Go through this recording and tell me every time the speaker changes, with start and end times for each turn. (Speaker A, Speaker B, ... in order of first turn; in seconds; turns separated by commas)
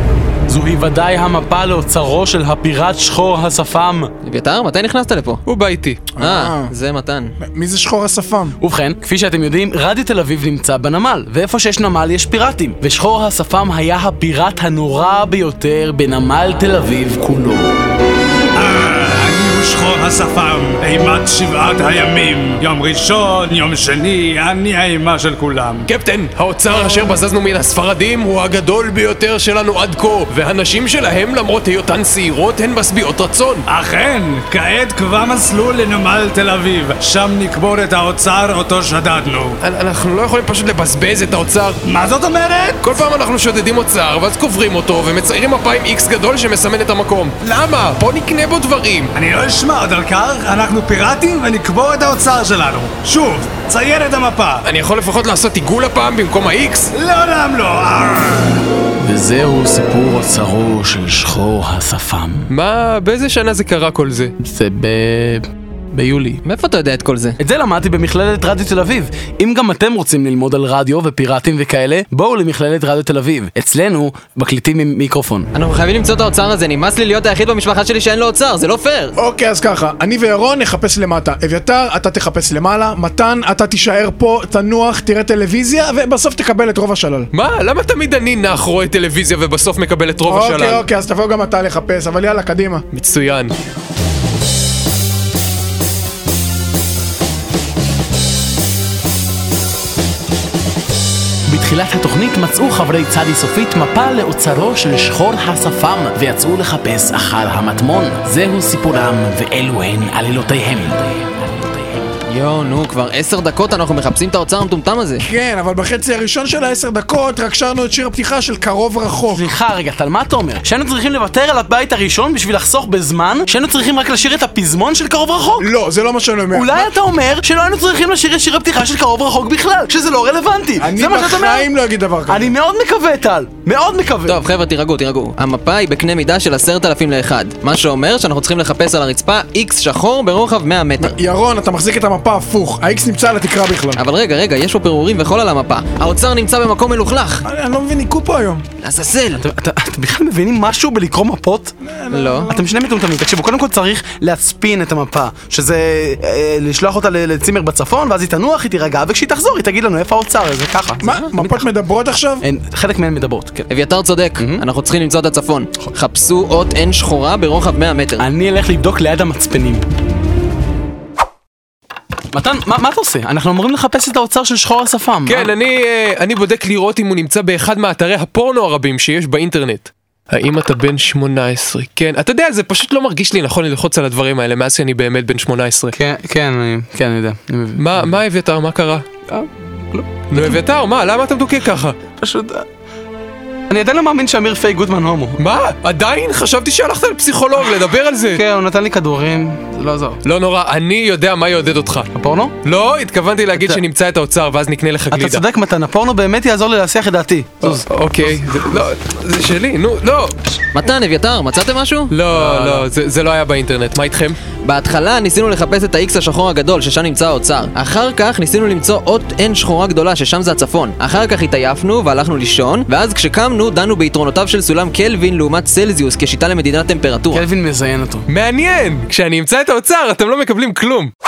Speaker A: 0.5-4.1, Speaker B: 4.2-5.4, Speaker C: 5.5-6.1, Speaker D: 6.2-6.7, Speaker B: 6.2-7.3, Speaker D: 7.4-8.6, Speaker A: 8.6-17.8, Speaker E: 18.6-25.9, Speaker C: 25.9-33.6, Speaker E: 33.7-39.6, Speaker C: 39.6-41.8, Speaker E: 41.9-42.8, Speaker C: 42.8-49.1, Speaker E: 49.1-54.7, Speaker C: 54.6-56.9, Speaker E: 56.9-58.6, Speaker A: 59.0-62.5, Speaker C: 62.5-64.3, Speaker A: 64.4-66.4, Speaker B: 66.5-67.4, Speaker A: 67.4-75.5, Speaker B: 75.5-79.2, Speaker D: 79.2-87.3, Speaker C: 87.3-90.8, Speaker D: 90.3-92.8, Speaker C: 92.9-93.5, Speaker A: 101.5-112.0, Speaker B: 112.3-115.2, Speaker D: 115.2-119.5, Speaker A: 119.3-125.7, Speaker D: 125.6-126.9, Speaker A: 126.5-131.7, Speaker D: 130.8-132.5, Speaker A: 132.3-134.4, Speaker B: 134.3-141.2, Speaker D: 141.0-144.0, Speaker B: 144.0-147.4, Speaker D: 147.5-148.6, Speaker B: 148.8-149.4, Speaker A: 149.4-151.7, Speaker D: 151.8-152.7, Speaker B: 152.1-152.5, Speaker A: 152.5-161.7, Speaker D: 161.0-162.4, Speaker A: 162.4-163.7, Speaker B: 163.7-168.3, Speaker A: 168.2-169.8, Speaker A: 172.3-175.5, Speaker C: 175.3-186.0, Speaker A: 185.9-187.9, Speaker C: 187.8-189.1, Speaker A: 189.3-190.6, Speaker C: 190.3-192.0, Speaker A: 192.2-192.7, Speaker A: 193.7-195.4, Speaker C: 195.4-198.4, Speaker A: 198.3-200.2, Speaker C: 200.2-202.1, Speaker A: 202.1-202.6, Speaker C: 202.6-205.4, Speaker A: 203.6-203.8, Speaker A: 205.1-207.9, Speaker C: 207.6-210.4, Speaker B: 210.7-212.2, Speaker C: 212.1-214.4, Speaker A: 212.3-212.8, Speaker B: 214.6-227.4, Speaker A: 227.3-228.3, Speaker C: 228.3-231.1